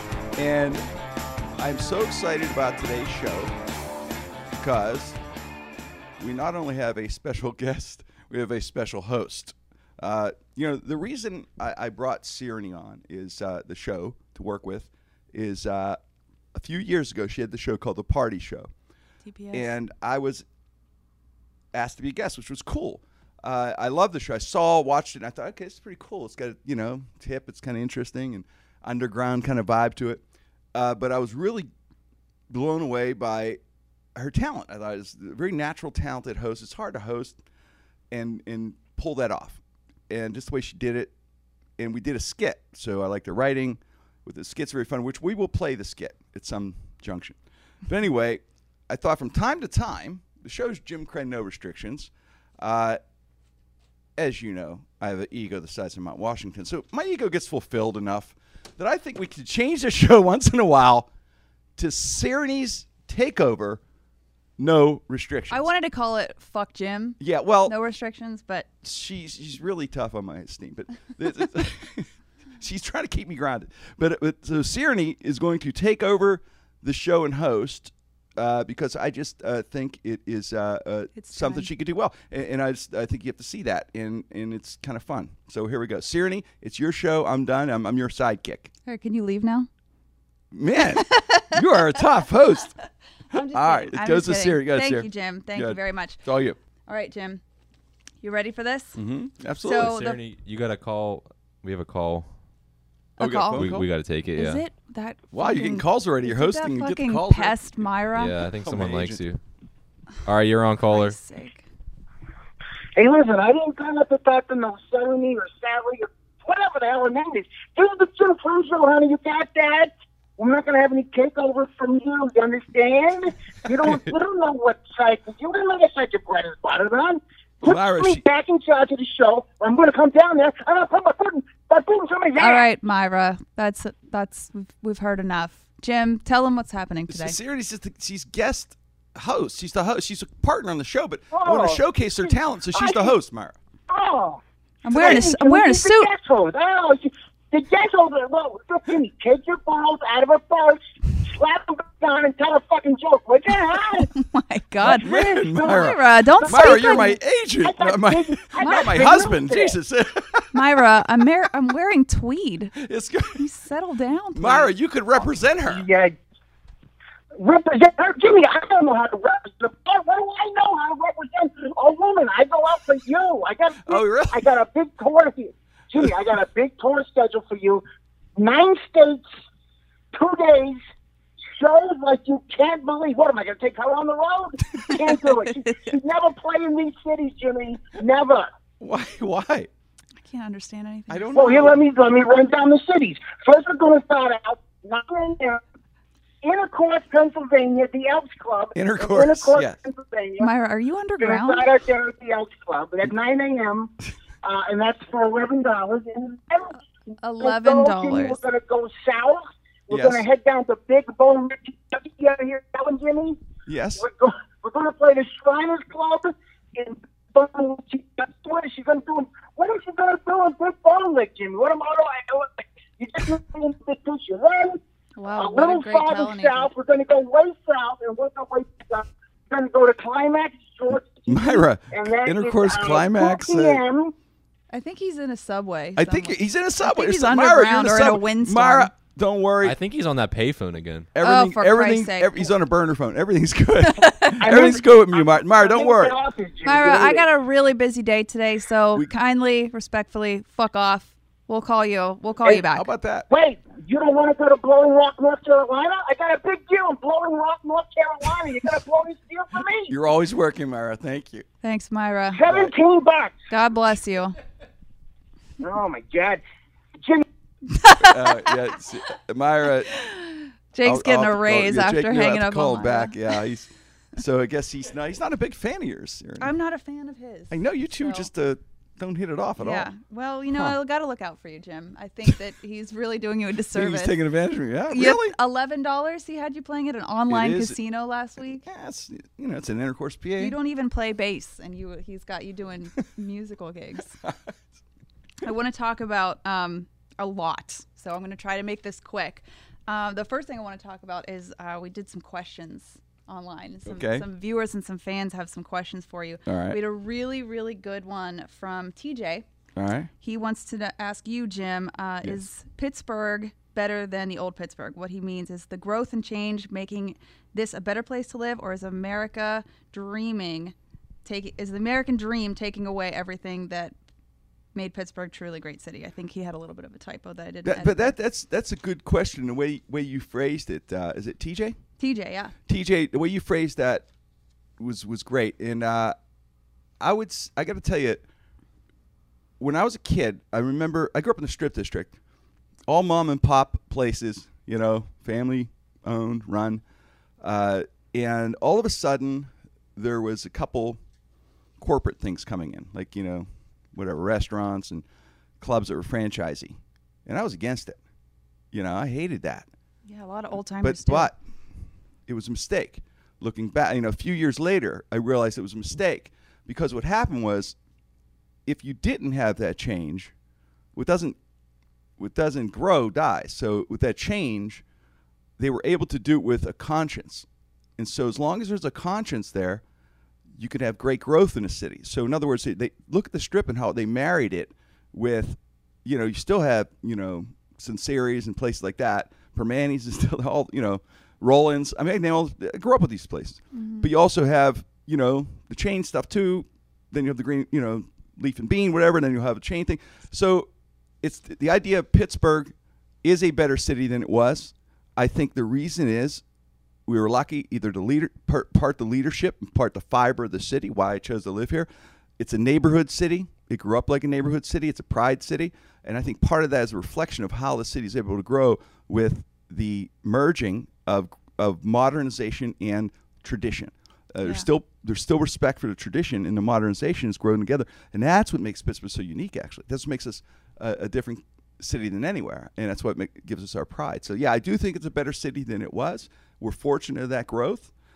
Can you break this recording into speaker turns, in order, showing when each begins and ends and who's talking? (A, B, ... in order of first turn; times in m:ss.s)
0:00.4-0:00.8 A
0:01.6-0:03.5 A
0:04.6-0:05.2 A
0:06.2-0:16.0 A
0:16.5-0:18.7 A
0:19.2-0:19.7 B
0:19.5-0:20.4 A
0:21.7-0:30.2 A
0:30.7-0:31.7 A
0:32.5-0:33.6 A
0:34.2-0:37.4 A
0:38.1-0:41.1 A
0:41.8-0:53.0 A
0:54.2-1:01.1 A
1:01.8-1:03.8 A
1:04.6-1:05.7 A
1:05.5-1:08.7 B
1:07.2-1:07.7 A
1:08.8-1:28.7 A
1:21.1-1:21.7 B
1:28.8-1:29.7 B
1:30.5-1:32.7 A
1:31.0-1:31.6 B
1:33.3-1:36.2 B
1:33.3-1:36.6 A
1:36.8-1:37.4 B
1:38.2-1:39.0 B
1:38.9-1:40.0 A
1:39.6-1:40.2 B
1:39.8-1:42.3 C
1:43.2-1:43.7 B
1:43.2-1:43.9 A
1:43.5-1:44.6 C
1:44.3-1:48.4 B
1:45.3-1:47.6 A
1:48.1-1:49.4 C
1:48.6-1:49.2 A
1:50.2-1:51.2 C
1:50.9-1:51.6 B
1:53.0-2:12.6 D
2:07.6-2:08.2 A
2:12.4-2:17.4 B
2:17.1-2:23.5 A
2:21.3-2:23.1 D
2:23.9-2:24.4 D
2:24.8-2:26.1 B
2:24.9-2:34.1 D
2:24.9-2:25.2 A
2:34.1-2:37.2 B
2:34.8-2:40.8 A
2:34.8-2:39.7 D
2:38.6-2:39.3 B
2:40.5-2:42.8 B
2:42.8-2:43.4 A
2:43.4-2:44.7 B
2:44.4-2:45.8 A
2:45.7-2:46.2 D
2:47.4-2:57.8 D
2:53.8-2:54.5 A
2:58.4-2:59.2 D
3:00.1-3:00.8 D
3:01.5-3:08.5 D
3:04.9-3:05.8 B
3:08.8-3:09.7 A
3:10.2-3:11.3 B
3:11.1-3:11.8 A
3:11.3-3:15.6 D
3:16.4-3:20.5 D
3:18.7-3:19.8 A
3:20.4-3:21.7 B
3:21.2-3:23.9 D
3:24.4-3:26.8 D
3:27.2-3:28.4 B
3:27.4-3:33.4 D
3:29.9-3:30.2 A
3:33.6-3:34.0 A
3:34.0-3:44.8 D
3:45.2-3:46.7 B
3:45.4-3:54.1 D
3:50.9-3:53.8 A
3:54.7-3:58.9 B
3:56.0-3:59.8 A
3:59.6-4:01.1 C
4:01.1-4:06.2 A
4:01.2-4:02.5 B
4:03.8-4:04.4 B
4:04.4-4:07.2 D
4:06.6-4:12.8 B
4:12.4-4:13.3 A
4:13.3-4:19.9 D
4:19.9-4:21.4 A
4:21.6-4:22.4 B
4:22.3-4:23.4 D
4:22.5-4:22.7 A
4:23.5-4:24.4 B
4:25.6-4:26.4 D
4:27.7-4:28.6 B
4:28.0-4:29.9 A
4:29.9-4:33.4 B
4:30.8-4:36.5 A
4:36.4-4:38.3 B
4:37.5-4:39.9 A
4:39.6-4:44.2 B
4:43.7-4:45.3 A
4:44.9-4:48.6 B
4:47.3-4:47.8 A
4:48.6-4:50.5 A
4:50.4-4:54.2 B
4:54.2-4:54.5 A
4:55.4-5:09.4 B
5:03.8-5:04.2 A
5:06.4-5:06.8 A
5:09.7-5:10.1 A
5:10.2-5:23.9 B
5:24.7-5:28.2 B
5:27.6-5:31.8 A
5:32.0-5:32.5 B
5:32.7-5:34.0 A
5:34.8-5:36.1 A
5:37.0-5:38.2 A
5:39.6-5:42.2 A
5:42.8-5:46.8 A
5:47.4-5:51.0 A
5:51.8-5:55.0 A
5:55.6-5:58.0 A
5:58.7-5:59.7 A
6:00.0-6:01.3 B
6:00.8-6:01.4 A
6:02.3-6:07.8 A
6:08.6-6:10.3 A
6:10.9-6:11.4 A
6:12.2-6:14.8 A
6:15.6-6:17.4 A
6:18.0-6:19.8 A
6:20.6-6:40.7 A
6:33.7-6:34.1 B
6:41.2-6:46.4 A
6:47.0-7:17.9 A